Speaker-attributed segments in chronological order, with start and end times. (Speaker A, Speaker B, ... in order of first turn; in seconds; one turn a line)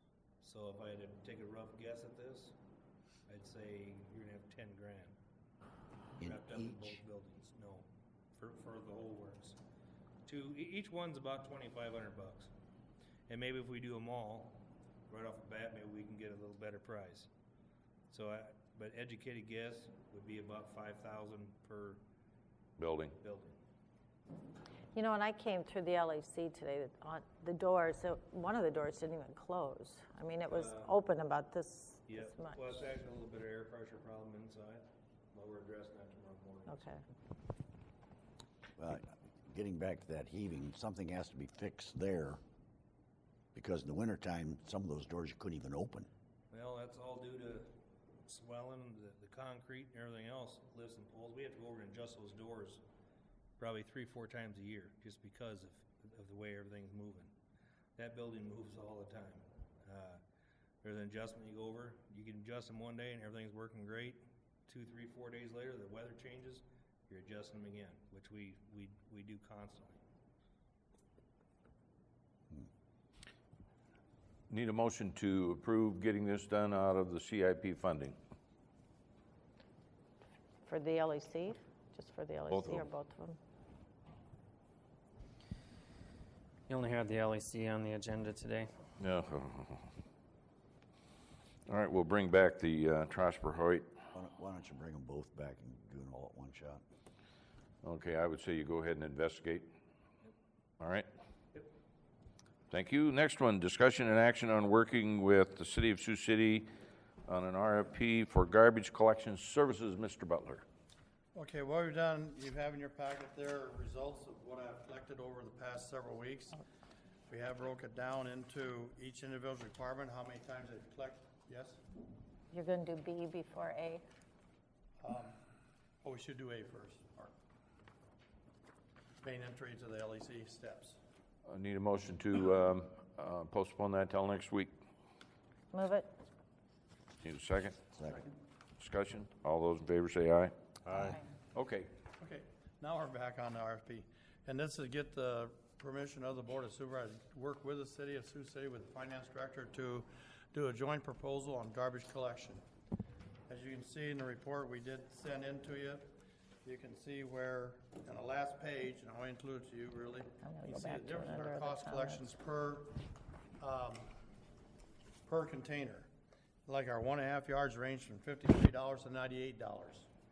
Speaker A: 0.4-2.5
Speaker A: 3.3-5.2
Speaker B: 6.2-7.0
Speaker A: 6.2-9.6
Speaker A: 10.2-12.5
Speaker A: 13.3-14.6
Speaker A: 15.1-17.3
Speaker A: 18.1-22.0
Speaker C: 22.8-23.1
Speaker A: 23.2-23.6
Speaker D: 24.9-32.6
Speaker A: 30.5-31.0
Speaker A: 32.1-37.0
Speaker D: 36.7-37.0
Speaker B: 38.8-42.4
Speaker B: 43.5-46.1
Speaker A: 46.5-47.7
Speaker A: 48.3-52.8
Speaker A: 53.6-57.3
Speaker A: 58.0-60.2
Speaker A: 60.8-70.0
Speaker C: 74.5-78.2
Speaker D: 80.7-83.4
Speaker C: 82.5-82.9
Speaker E: 86.7-88.7
Speaker C: 89.0-89.9
Speaker C: 91.7-93.9
Speaker B: 94.1-96.8
Speaker C: 97.8-99.7
Speaker C: 100.8-101.1
Speaker C: 102.7-106.7
Speaker C: 107.3-110.6
Speaker F: 111.3-116.6
Speaker F: 117.3-121.8
Speaker D: 122.5-124.0
Speaker F: 125.0-125.4
Speaker F: 126.0-127.3
Speaker F: 129.2-131.0
Speaker C: 131.5-134.7
Speaker D: 135.7-136.2
Speaker C: 137.2-137.8
Speaker B: 137.9-138.3
Speaker C: 138.8-140.5
Speaker D: 140.9-141.2
Speaker C: 141.5-141.9
Speaker F: 142.2-152.6
Speaker F: 153.5-163.0
Speaker D: 160.4-162.3
Speaker F: 163.6-164.1
Speaker F: 165.3-166.1
Speaker F: 166.7-170.1